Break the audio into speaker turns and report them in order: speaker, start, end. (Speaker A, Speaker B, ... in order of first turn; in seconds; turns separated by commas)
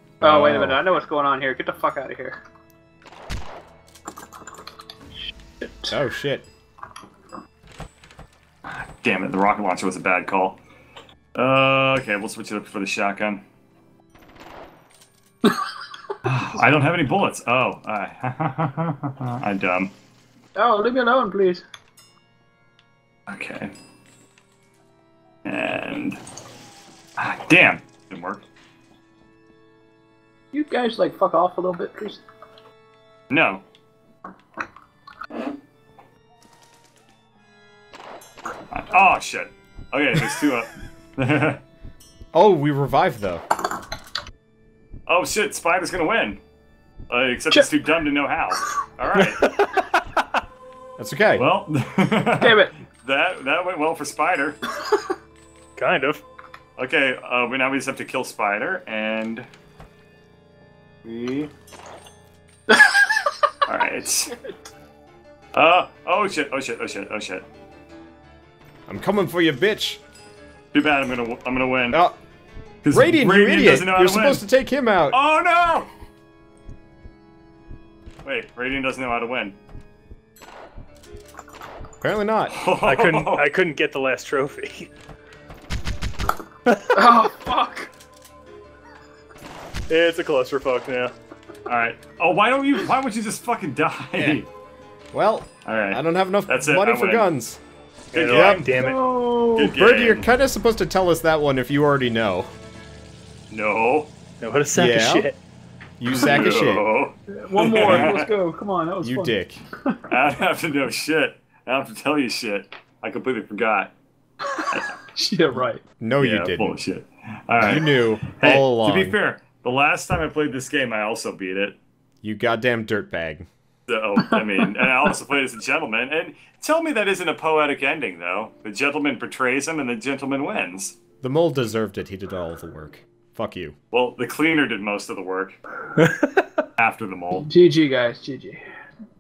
Speaker A: 0.2-0.8, Speaker B: 0.2-2.4, Speaker B: 5.6-5.9, Speaker A: 5.9-6.5, Speaker C: 8.7-10.6, Speaker C: 11.3-13.4, Speaker C: 16.2-19.9, Speaker B: 20.6-21.6, Speaker C: 23.3-23.7, Speaker C: 25.4-26.2, Speaker C: 27.2-28.4, Speaker B: 30.5-32.2, Speaker C: 33.3-33.6, Speaker C: 38.7-41.6, Speaker A: 42.3-43.4, Speaker C: 45.1-46.4, Speaker C: 47.1-49.4, Speaker D: 49.2-50.2, Speaker A: 51.0-51.4, Speaker C: 51.3-54.6, Speaker B: 52.4-52.7, Speaker D: 55.8-56.2, Speaker C: 56.8-59.5, Speaker C: 61.0-61.5, Speaker B: 62.7-63.0, Speaker C: 63.7-64.3, Speaker C: 65.5-67.4, Speaker A: 68.9-70.0, Speaker C: 70.7-72.0, Speaker A: 71.9-72.2, Speaker C: 72.8-74.5, Speaker A: 72.9-75.2, Speaker C: 75.1-75.9, Speaker C: 78.2-79.5, Speaker A: 82.0-82.5, Speaker C: 82.5-83.5, Speaker D: 82.8-84.9, Speaker D: 86.7-87.2, Speaker B: 86.9-87.9, Speaker D: 89.9-91.1, Speaker C: 91.7-94.5, Speaker A: 94.2-94.4, Speaker A: 95.1-97.6, Speaker C: 95.6-97.3, Speaker C: 98.1-98.7, Speaker D: 98.1-99.0, Speaker A: 98.3-98.6, Speaker B: 98.7-99.8, Speaker C: 99.6-100.3, Speaker A: 99.6-102.5, Speaker C: 103.5-104.1, Speaker D: 104.4-105.4, Speaker A: 104.7-105.3, Speaker A: 106.0-106.8, Speaker C: 106.1-108.3, Speaker B: 106.1-106.5, Speaker B: 107.3-110.0, Speaker A: 107.8-108.1, Speaker A: 109.0-109.6, Speaker C: 110.1-113.9, Speaker B: 114.5-115.8, Speaker C: 114.7-115.0, Speaker A: 116.0-116.7, Speaker C: 116.2-121.8, Speaker A: 117.6-119.2, Speaker A: 122.2-123.5, Speaker C: 123.9-131.0, Speaker A: 131.2-133.7, Speaker C: 133.9-135.6, Speaker D: 136.0-136.6, Speaker C: 136.8-137.5, Speaker B: 137.3-138.6